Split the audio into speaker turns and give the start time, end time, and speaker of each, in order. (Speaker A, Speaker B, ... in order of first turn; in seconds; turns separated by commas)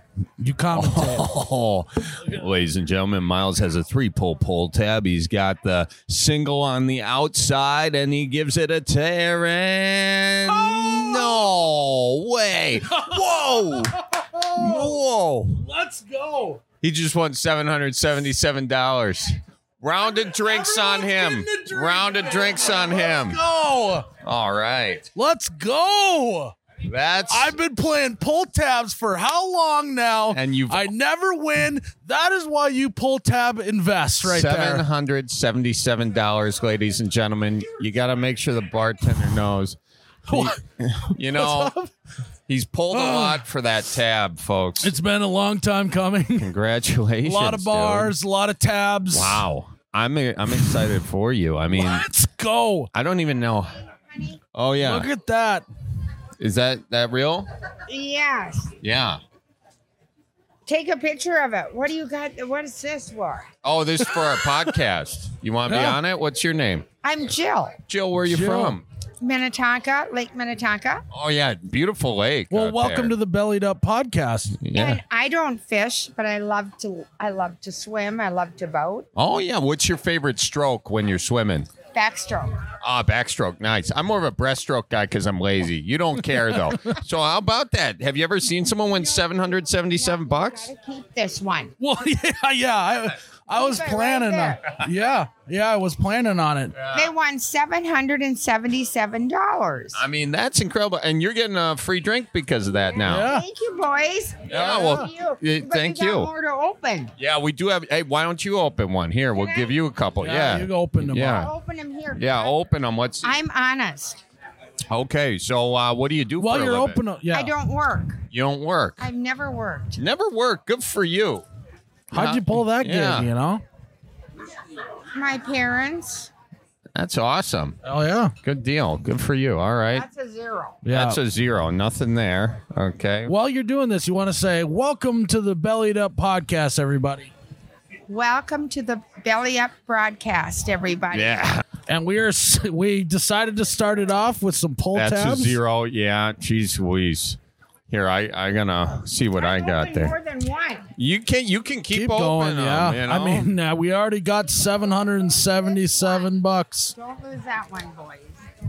Speaker A: 0.4-1.3, Speaker B: 0.7-13.9, Speaker A: 10.5-11.4, Speaker A: 12.9-15.0, Speaker B: 14.6-15.6, Speaker A: 15.6-16.6, Speaker B: 16.8-23.4, Speaker A: 20.5-24.1, Speaker B: 24.2-25.1, Speaker A: 25.1-26.5, Speaker B: 26.8-27.5, Speaker A: 27.3-34.8, Speaker B: 30.3-30.9, Speaker B: 34.2-41.7, Speaker A: 40.3-40.6, Speaker A: 41.1-41.9, Speaker B: 42.5-44.9, Speaker A: 42.9-43.4, Speaker A: 44.8-46.5, Speaker B: 46.4-48.1, Speaker A: 47.2-49.4, Speaker B: 49.1-52.0, Speaker A: 51.7-52.9, Speaker B: 52.9-53.8, Speaker B: 54.5-55.1, Speaker A: 54.8-55.6, Speaker B: 56.4-57.5, Speaker C: 57.9-58.7, Speaker B: 58.8-59.2, Speaker C: 60.6-63.5, Speaker B: 63.6-66.8, Speaker A: 65.7-66.0, Speaker C: 67.0-67.8, Speaker B: 67.9-68.8, Speaker A: 68.2-68.8, Speaker C: 69.2-71.0, Speaker B: 71.1-73.1, Speaker A: 72.5-74.6, Speaker B: 74.6-75.0, Speaker C: 74.7-79.1, Speaker B: 79.2-81.7, Speaker C: 81.9-82.6, Speaker B: 82.8-90.7, Speaker C: 90.0-91.7, Speaker A: 91.8-96.8, Speaker C: 93.5-94.8, Speaker B: 96.8-97.1, Speaker C: 96.9-100.0, Speaker B: 99.9-103.3, Speaker C: 103.0-107.1, Speaker A: 103.0-103.5, Speaker B: 104.5-106.3, Speaker A: 104.6-105.0, Speaker B: 107.2-111.5, Speaker C: 109.3-109.7, Speaker A: 110.2-111.5, Speaker C: 111.2-112.5, Speaker B: 112.1-113.3, Speaker C: 113.2-114.2, Speaker B: 114.9-117.0, Speaker A: 116.4-117.5, Speaker C: 117.3-118.2, Speaker B: 118.3-119.1, Speaker C: 119.0-120.0, Speaker B: 120.0-121.4, Speaker A: 122.1-123.6, Speaker B: 122.1-123.3, Speaker C: 125.1-126.3, Speaker B: 126.9-127.8, Speaker A: 127.8-128.3, Speaker B: 128.4-130.1, Speaker C: 129.9-130.8, Speaker A: 130.8-131.2, Speaker B: 130.9-133.3, Speaker A: 133.2-137.3, Speaker C: 138.1-141.4, Speaker B: 141.1-141.6, Speaker A: 141.9-145.6, Speaker B: 144.9-147.4, Speaker B: 147.9-150.1, Speaker C: 149.4-150.9, Speaker B: 150.9-153.5, Speaker A: 151.9-156.9, Speaker C: 155.5-156.3, Speaker C: 156.9-158.4